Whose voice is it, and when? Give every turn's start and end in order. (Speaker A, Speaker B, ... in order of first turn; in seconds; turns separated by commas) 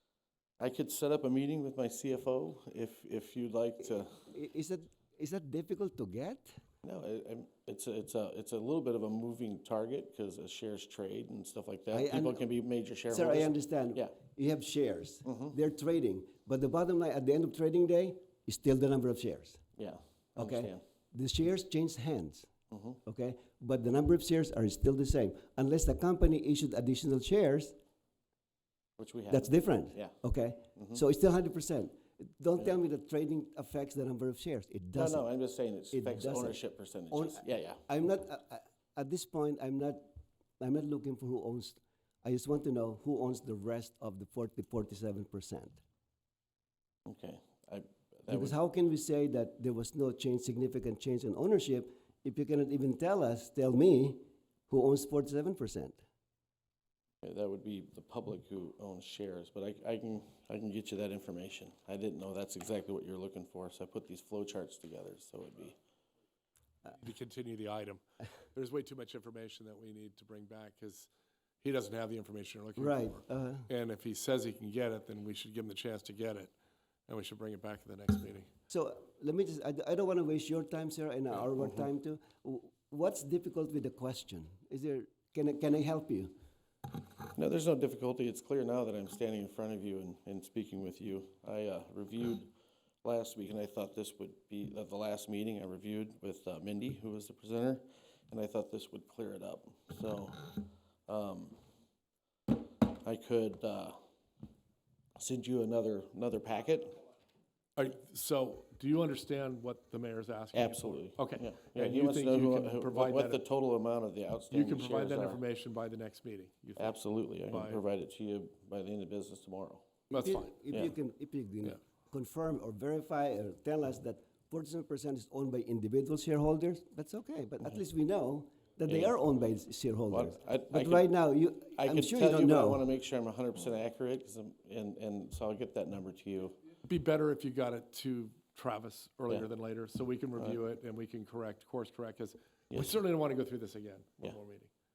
Speaker A: 0.6-4.1, Speaker B: 3.8-6.6, Speaker A: 6.8-14.1, Speaker B: 11.9-12.4, Speaker B: 13.1-19.6, Speaker A: 19.8-20.8, Speaker B: 20.4-22.5, Speaker B: 23.1-27.8, Speaker A: 29.0-29.4, Speaker B: 29.3-35.2, Speaker A: 35.0-37.8, Speaker B: 35.9-36.6, Speaker B: 37.1-45.8, Speaker A: 47.1-48.6, Speaker B: 48.3-56.0, Speaker A: 57.2-65.8, Speaker C: 66.9-68.0, Speaker C: 68.5-71.1, Speaker C: 71.6-76.5, Speaker B: 72.8-73.7, Speaker C: 77.1-78.5, Speaker B: 78.7-86.3, Speaker A: 87.3-92.5, Speaker A: 93.0-100.5, Speaker A: 101.1-101.6, Speaker A: 103.0-104.0, Speaker A: 105.2-107.0, Speaker C: 107.8-113.5, Speaker A: 110.5-115.4, Speaker C: 114.5-117.8, Speaker A: 116.8-119.8, Speaker B: 120.1-132.9, Speaker C: 120.1-120.9, Speaker A: 128.9-129.1, Speaker A: 130.1-131.0, Speaker A: 131.8-136.6, Speaker C: 136.8-144.7